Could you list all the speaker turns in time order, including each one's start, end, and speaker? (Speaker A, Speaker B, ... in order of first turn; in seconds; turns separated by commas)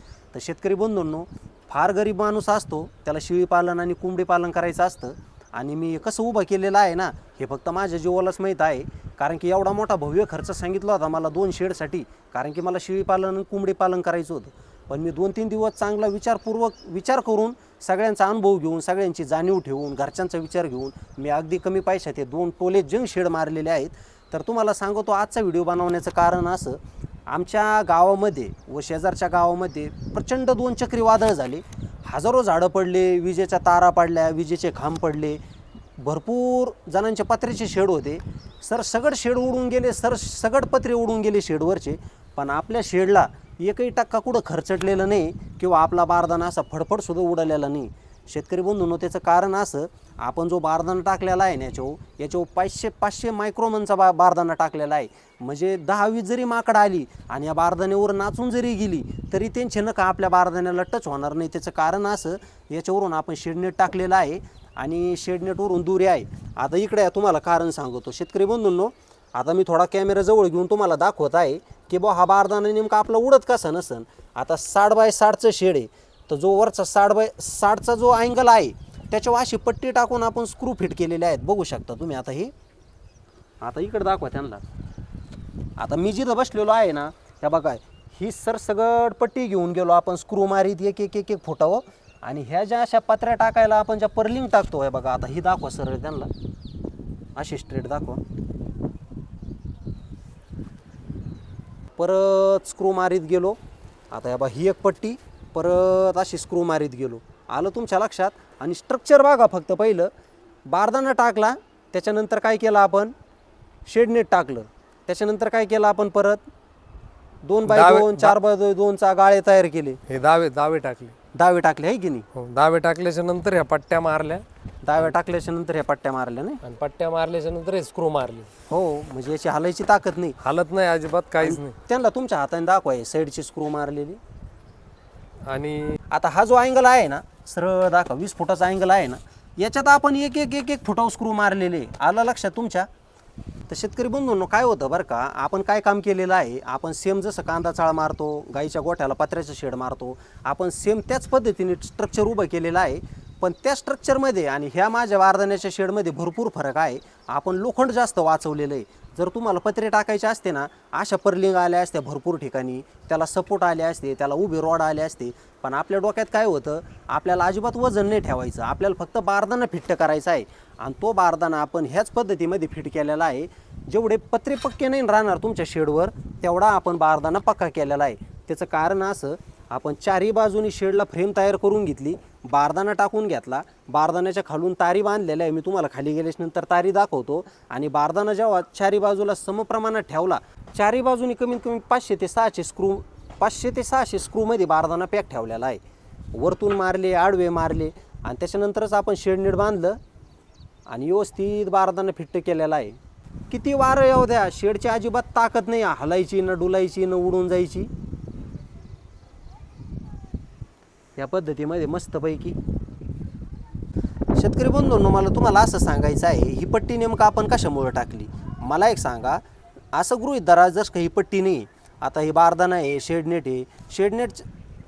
Speaker A: 0.3-35.4, Speaker A: 36.0-82.5, Speaker A: 83.6-84.6, Speaker A: 85.8-96.3, Speaker A: 97.4-98.2, Speaker A: 102.0-103.6, Speaker A: 104.1-110.1, Speaker A: 110.7-113.1, Speaker A: 113.9-116.4, Speaker A: 117.4-120.0, Speaker B: 117.7-118.3, Speaker B: 120.1-121.2, Speaker A: 121.3-122.3, Speaker B: 122.3-124.5, Speaker A: 124.8-126.6, Speaker B: 126.6-128.5, Speaker A: 128.7-130.4, Speaker B: 130.4-131.7, Speaker A: 131.4-134.2, Speaker B: 135.5-136.0, Speaker A: 136.1-142.9, Speaker A: 143.7-195.8, Speaker A: 196.3-200.0, Speaker A: 200.9-203.0, Speaker A: 203.5-207.9, Speaker A: 211.2-212.6, Speaker A: 214.3-219.4, Speaker A: 219.9-224.5